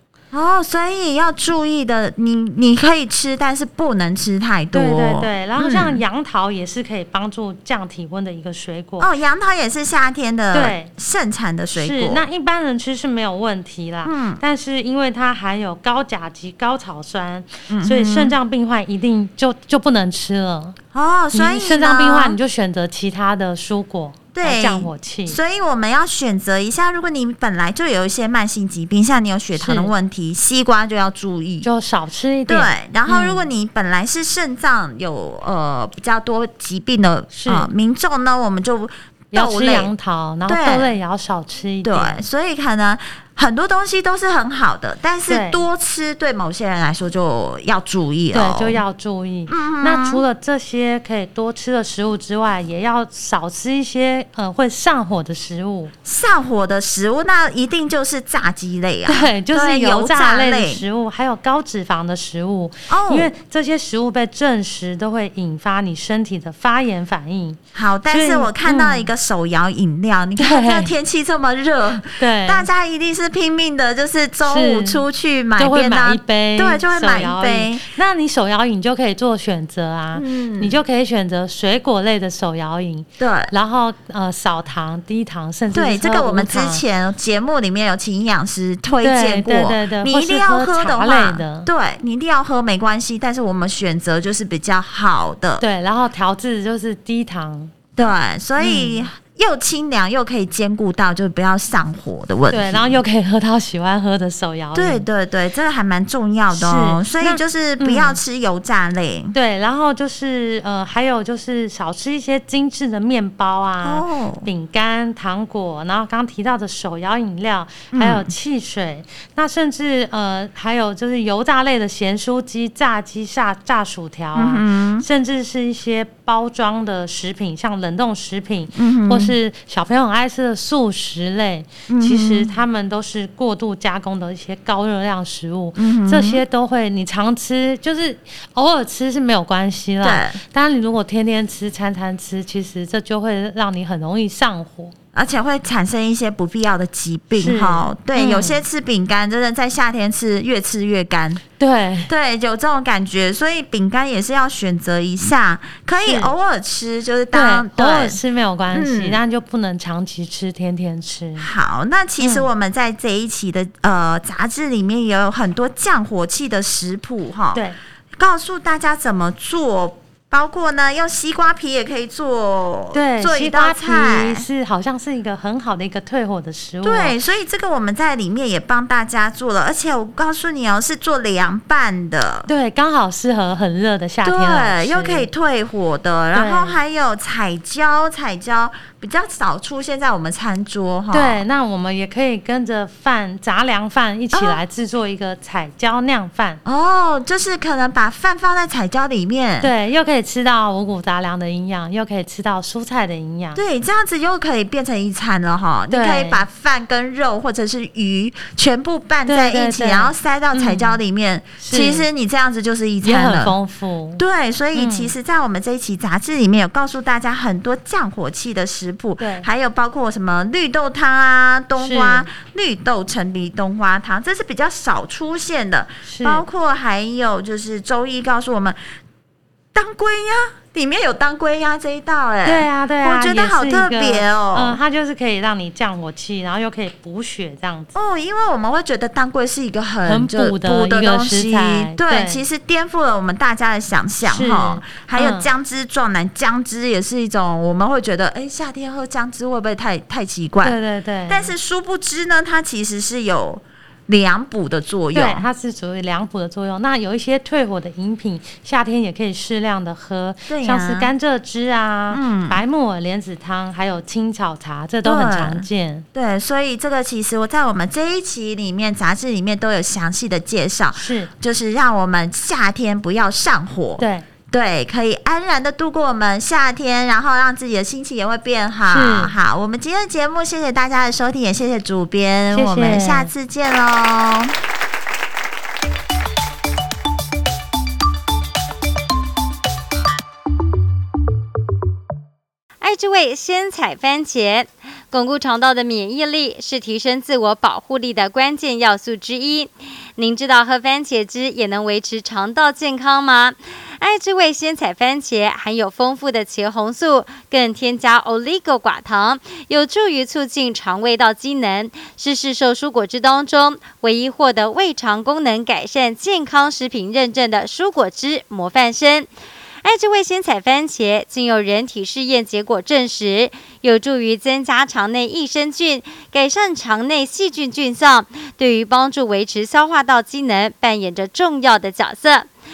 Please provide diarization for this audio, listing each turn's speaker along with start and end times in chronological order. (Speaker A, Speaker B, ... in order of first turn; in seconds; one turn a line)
Speaker A: 0.3-6.0
Speaker B: 4.7-9.1
Speaker A: 9.0-12.2
Speaker B: 10.5-10.9
Speaker B: 11.7-20.8
Speaker A: 14.0-14.4
Speaker A: 17.7-18.3
Speaker A: 20.9-22.4
Speaker B: 21.3-25.4
Speaker A: 24.3-31.7
Speaker B: 29.6-29.9
Speaker B: 31.6-33.5
Speaker A: 32.5-39.9
Speaker B: 37.3-37.7
Speaker B: 39.3-42.2
Speaker A: 40.5-40.9
Speaker A: 41.8-48.8
Speaker B: 45.3-45.6
Speaker B: 48.3-55.9
Speaker A: 49.5-50.2
Speaker A: 56.0-60.8
Speaker B: 59.0-69.1
Speaker A: 62.9-63.3
Speaker A: 67.7-77.8
Speaker B: 70.4-70.9
Speaker B: 72.2-72.7
Speaker B: 74.4-75.0
Speaker B: 75.6-86.8
Speaker A: 80.1-80.8
Speaker A: 83.2-83.5
Speaker A: 85.7-95.6
Speaker B: 89.0-91.7
Speaker B: 95.6-97.7
Speaker A: 98.0-103.0
Speaker B: 98.6-99.1
Speaker B: 102.5-105.0
Speaker A: 104.7-109.3
Speaker B: 106.5-108.2
Speaker B: 109.3-144.9
Speaker A: 113.8-114.5
Speaker A: 117.9-118.3
Speaker A: 124.3-125.0
Speaker A: 128.7-129.3
Speaker A: 131.9-132.5
Speaker A: 135.8-136.4
Speaker A: 140.0-140.4
Speaker A: 145.1-151.4
Speaker B: 147.3-148.6
Speaker B: 151.6-152.1
Speaker A: 152.1-158.2
Speaker B: 156.0-156.3
Speaker B: 157.3-161.5
Speaker A: 158.7-159.2
Speaker A: 161.4-167.6
Speaker B: 162.2-162.5
Speaker A: 168.2-174.5
Speaker B: 172.9-177.2
Speaker A: 176.8-182.5
Speaker B: 182.5-185.3
Speaker A: 184.2-191.4
Speaker B: 186.3-186.8
Speaker B: 191.1-196.6
Speaker A: 194.3-194.6
Speaker A: 196.6-199.7
Speaker B: 199.6-203.6
Speaker A: 203.5-213.6
Speaker B: 205.9-206.4
Speaker B: 209.2-211.0
Speaker B: 211.6-212.1
Speaker B: 213.0-214.2
Speaker A: 214.2-228.8
Speaker B: 214.7-215.1
Speaker B: 219.2-219.5
Speaker B: 221.8-222.3
Speaker B: 226.0-226.4
Speaker A: 229.7-234.8
Speaker B: 232.4-237.9
Speaker A: 237.9-255.4
Speaker B: 240.1-242.4
Speaker B: 244.2-245.5
Speaker B: 250.6-251.5
Speaker B: 255.1-266.0
Speaker A: 260.5-261.1
Speaker A: 262.1-262.6
Speaker A: 265.0-284.6
Speaker B: 270.9-271.3
Speaker B: 274.0-274.3
Speaker B: 278.9-279.3
Speaker B: 282.5-283.3
Speaker C: 292.8-319.3
Speaker C: 319.8-332.5